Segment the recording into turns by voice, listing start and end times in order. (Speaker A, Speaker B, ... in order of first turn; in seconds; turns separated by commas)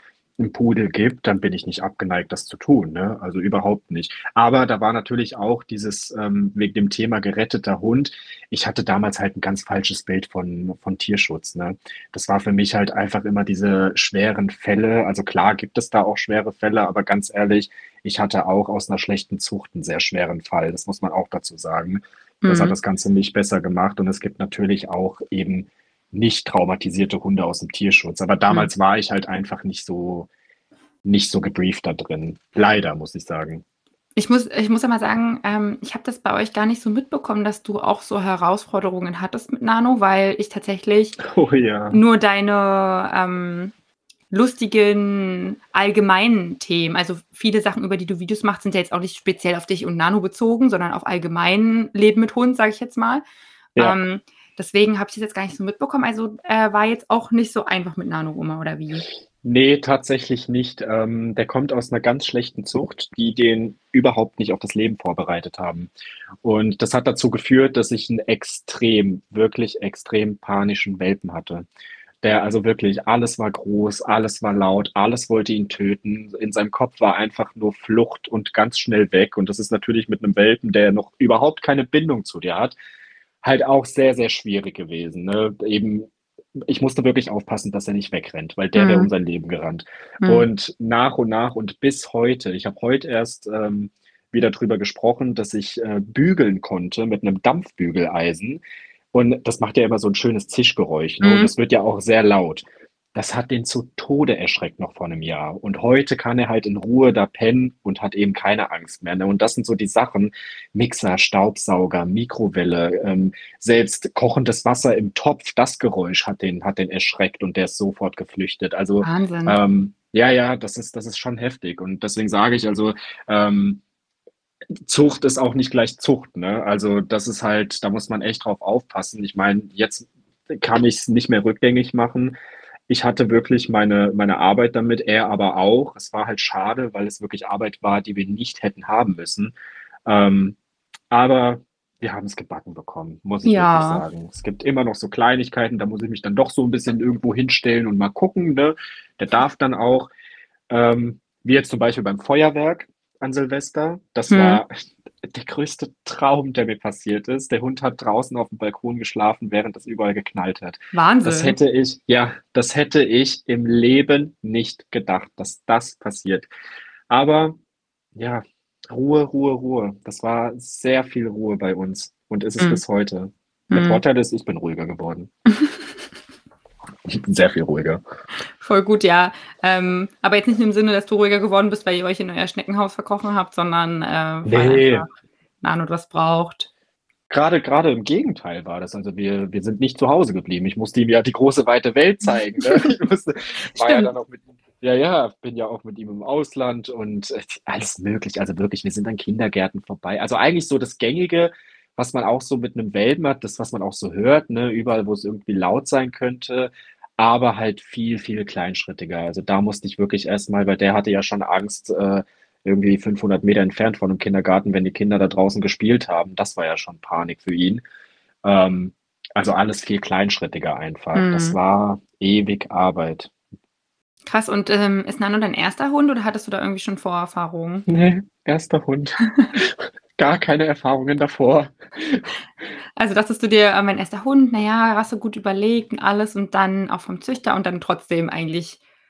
Speaker A: 0.4-30.3, Speaker B: 22.4-22.8, Speaker A: 31.0-33.6, Speaker B: 34.1-41.2, Speaker A: 41.2-42.0, Speaker B: 41.9-43.7, Speaker B: 44.3-53.2, Speaker B: 53.8-59.0, Speaker A: 59.4-65.9, Speaker A: 66.4-71.7, Speaker A: 72.2-82.8, Speaker A: 83.4-98.6, Speaker B: 88.7-89.1, Speaker B: 90.2-90.5, Speaker A: 99.1-123.8, Speaker B: 101.2-101.5, Speaker B: 119.0-119.6, Speaker A: 124.8-132.3, Speaker A: 132.9-139.5, Speaker A: 140.1-140.6, Speaker A: 141.1-150.1, Speaker B: 143.4-144.0, Speaker A: 150.7-154.7, Speaker B: 154.3-154.6, Speaker A: 155.3-166.5, Speaker B: 160.9-161.6, Speaker A: 167.1-167.6, Speaker A: 168.2-175.3, Speaker B: 173.7-174.0, Speaker A: 177.1-178.0, Speaker B: 178.6-185.1, Speaker A: 184.4-185.1, Speaker B: 185.6-186.7, Speaker A: 187.3-217.8, Speaker B: 193.8-194.1, Speaker A: 218.4-223.3, Speaker B: 221.1-221.6, Speaker B: 224.2-227.8, Speaker A: 227.9-232.3, Speaker B: 229.2-229.5, Speaker B: 233.0-238.8